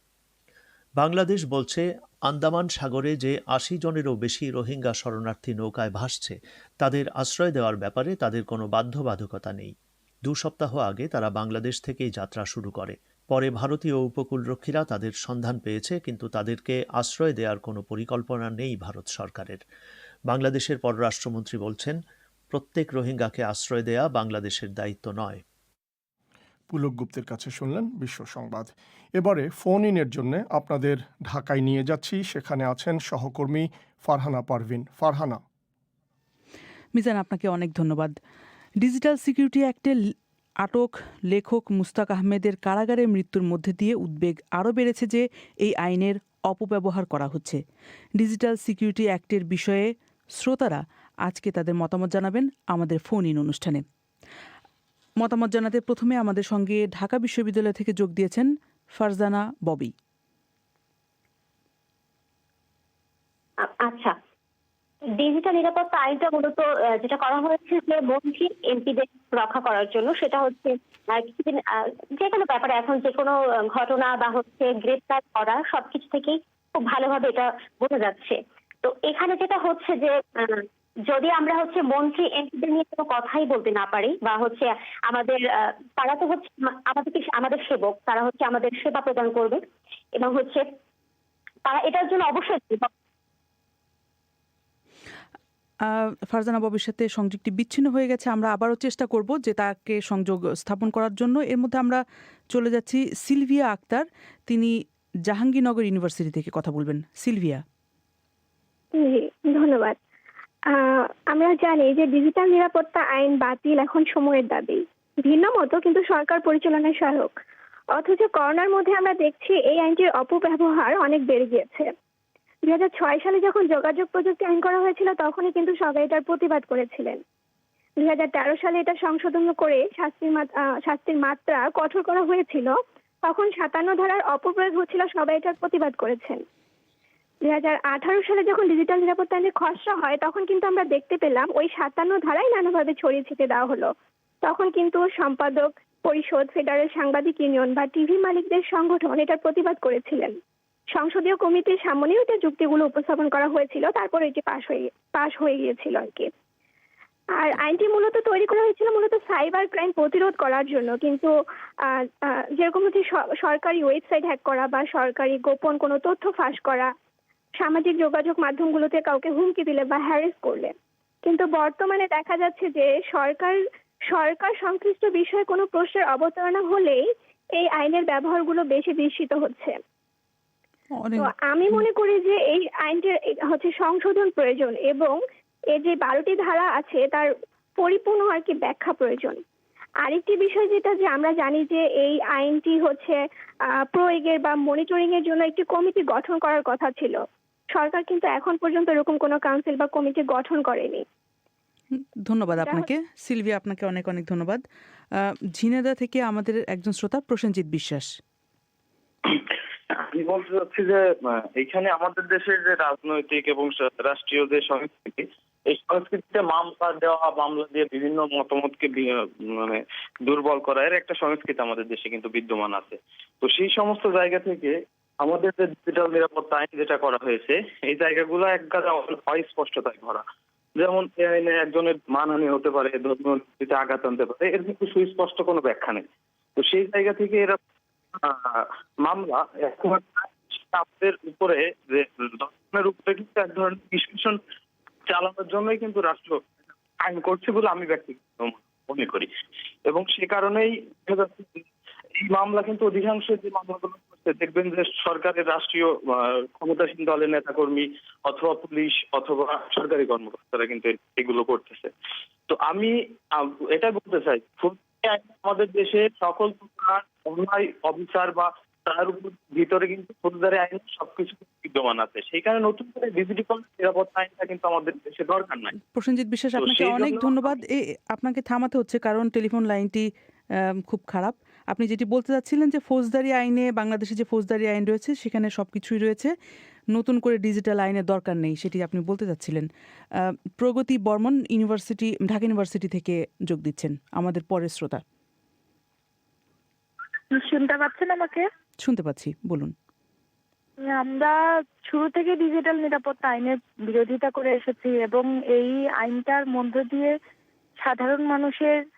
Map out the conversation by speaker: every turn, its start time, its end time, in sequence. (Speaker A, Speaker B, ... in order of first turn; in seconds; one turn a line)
Speaker A: 1.0-9.7
Speaker A: 10.2-19.6
Speaker A: 20.3-22.0
Speaker A: 22.5-25.4
Speaker B: 26.7-35.4
Speaker C: 36.9-38.1
Speaker C: 38.8-40.0
Speaker C: 40.6-47.6
Speaker C: 48.2-53.8
Speaker C: 55.2-59.9
Speaker D: 63.6-64.1
Speaker D: 65.2-89.6
Speaker D: 90.2-90.7
Speaker D: 91.7-92.9
Speaker C: 95.8-104.7
Speaker C: 105.3-107.6
Speaker E: 109.0-110.0
Speaker E: 110.7-117.3
Speaker E: 117.9-121.9
Speaker E: 122.7-127.2
Speaker E: 128.0-136.4
Speaker E: 137.4-143.9
Speaker E: 144.4-150.3
Speaker E: 150.9-156.3
Speaker E: 157.4-161.3
Speaker E: 161.8-166.9
Speaker E: 167.6-173.6
Speaker E: 174.1-177.0
Speaker E: 177.6-179.8
Speaker C: 181.0-181.8
Speaker E: 181.2-185.2
Speaker E: 185.7-189.4
Speaker E: 190.0-193.2
Speaker E: 193.8-197.2
Speaker E: 197.7-201.0
Speaker C: 202.2-204.6
Speaker C: 205.2-208.1
Speaker F: 209.9-230.2
Speaker F: 230.8-236.1
Speaker F: 236.6-237.6
Speaker F: 238.2-244.4
Speaker F: 245.1-246.4
Speaker F: 247.0-249.3
Speaker F: 249.9-251.6
Speaker F: 252.2-261.9
Speaker F: 262.5-275.7
Speaker C: 275.9-280.1
Speaker F: 276.6-277.6
Speaker C: 280.6-286.3
Speaker C: 286.9-289.7
Speaker C: 290.6-295.0
Speaker G: 297.3-298.5
Speaker C: 298.8-299.7
Speaker G: 300.8-301.3
Speaker G: 301.9-307.1
Speaker G: 307.8-308.8